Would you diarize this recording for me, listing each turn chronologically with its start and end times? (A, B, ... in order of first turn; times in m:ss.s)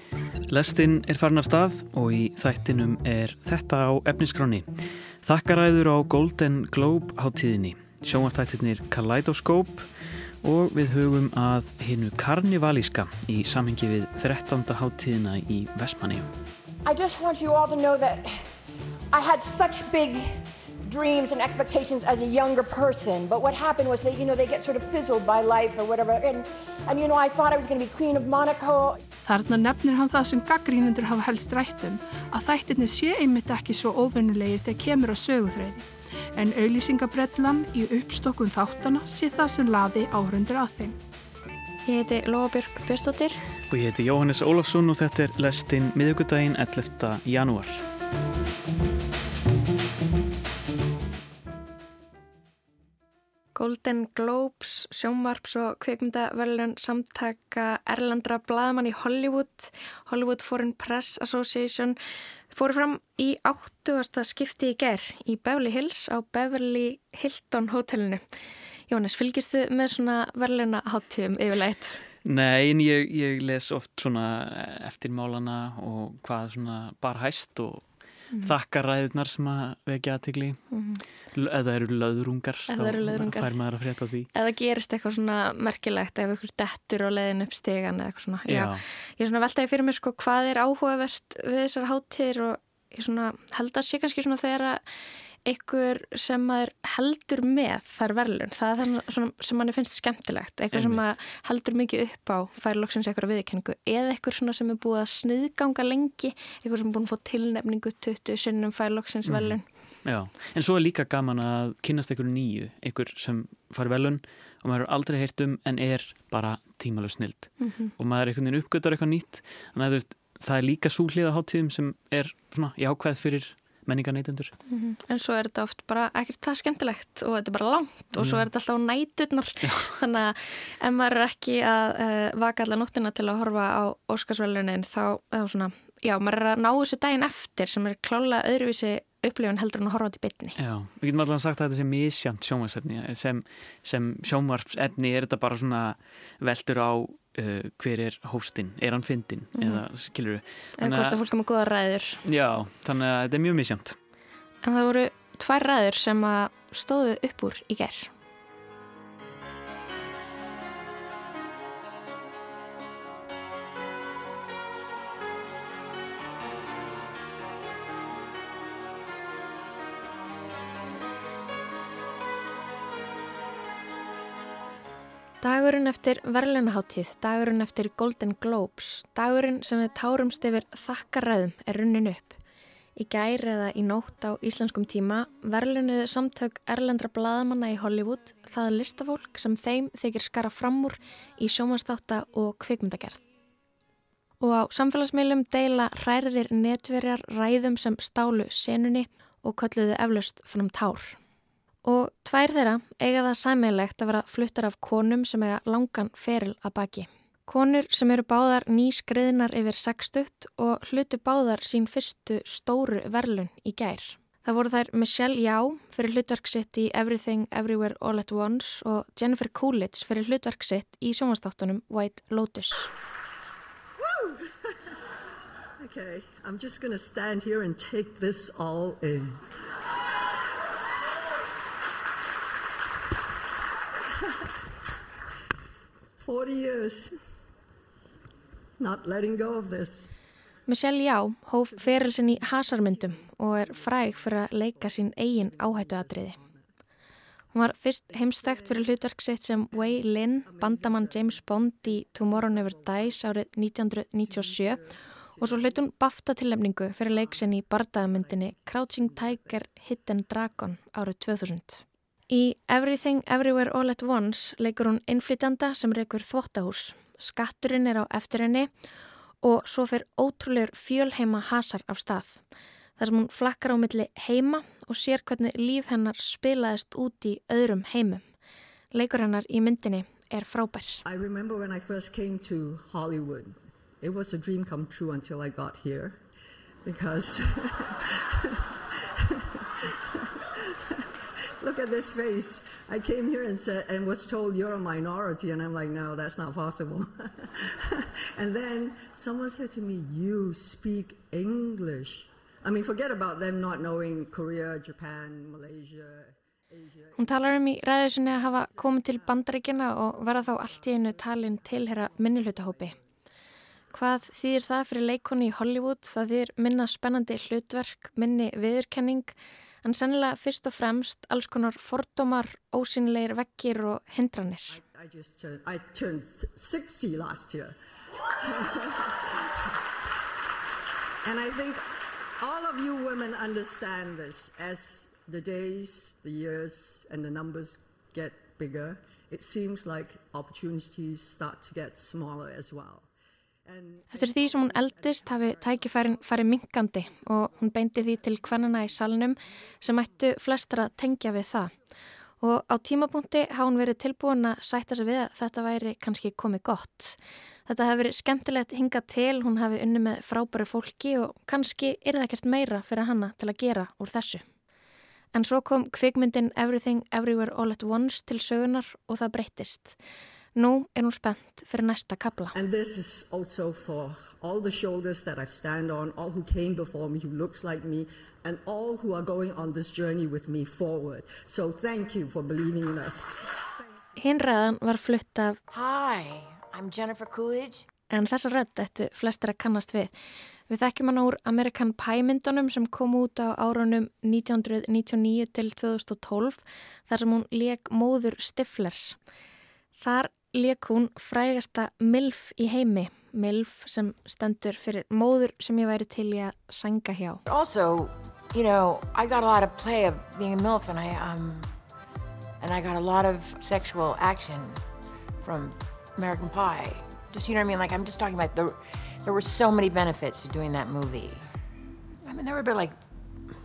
0:00.5-0:04.7 A
0:05.2-0:09.9 A
0:10.4-0:16.3 A
0:16.8-0:18.5 B
0:19.1-0:29.0 B
0:29.2-0:41.0 C
0:41.9-0:43.4 D
0:43.7-0:47.8 A
0:53.6-1:02.0 D
1:02.5-1:08.2 D
1:08.9-1:12.0 D
1:12.2-1:20.6 A
1:20.7-1:21.0 D
1:21.3-1:24.3 A
1:22.7-1:23.6 D
1:24.3-1:34.8 D
1:28.5-1:28.8 A
1:35.5-1:49.6 D
1:40.7-1:41.0 A
1:49.2-2:04.5 A
1:57.6-1:57.9 D
2:04.7-2:20.6 D
2:08.2-2:08.5 A
2:09.6-2:10.0 A
2:20.6-2:31.2 A
2:29.6-2:29.8 D
2:30.8-2:32.2 D
2:32.2-2:34.0 A
2:34.6-2:38.1 D
2:55.4-3:02.4 D
3:03.0-3:13.2 D
3:14.4-3:21.2 D
3:21.8-3:42.9 D
3:44.0-3:44.7 E
3:45.8-3:49.4 E
3:56.2-3:57.2 E
3:58.8-4:00.1 E
4:00.7-4:06.4 D
4:01.7-4:06.7 E
4:07.5-4:14.8 D
4:08.1-4:09.0 E
4:10.4-4:13.2 E
4:14.2-4:15.8 E
4:15.4-4:28.7 D
4:17.1-4:19.7 E
4:29.4-4:32.4 D
4:33.0-4:38.2 D
4:38.9-4:41.0 D
4:41.0-4:46.2 E
4:46.8-4:51.1 E
4:51.6-5:13.1 E
5:07.2-5:13.0 D
5:13.9-5:19.3 D
5:19.8-5:24.8 D
5:24.7-5:27.8 E
5:28.4-5:29.5 E
5:31.2-5:31.9 E
5:32.4-5:43.1 E
5:43.6-5:46.4 E
5:44.1-5:51.7 D
5:52.4-6:04.4 D
6:05.3-6:10.0 D
6:10.6-6:12.6 D
6:12.5-6:23.5 E
6:24.2-6:25.6 D
6:25.7-6:27.9 B
6:28.1-6:30.2 D
6:30.7-6:39.2 D
6:40.0-6:47.4 D
6:47.5-6:51.7 B
6:52.6-6:54.8 B
6:55.4-7:01.4 B
7:02.2-7:03.0 B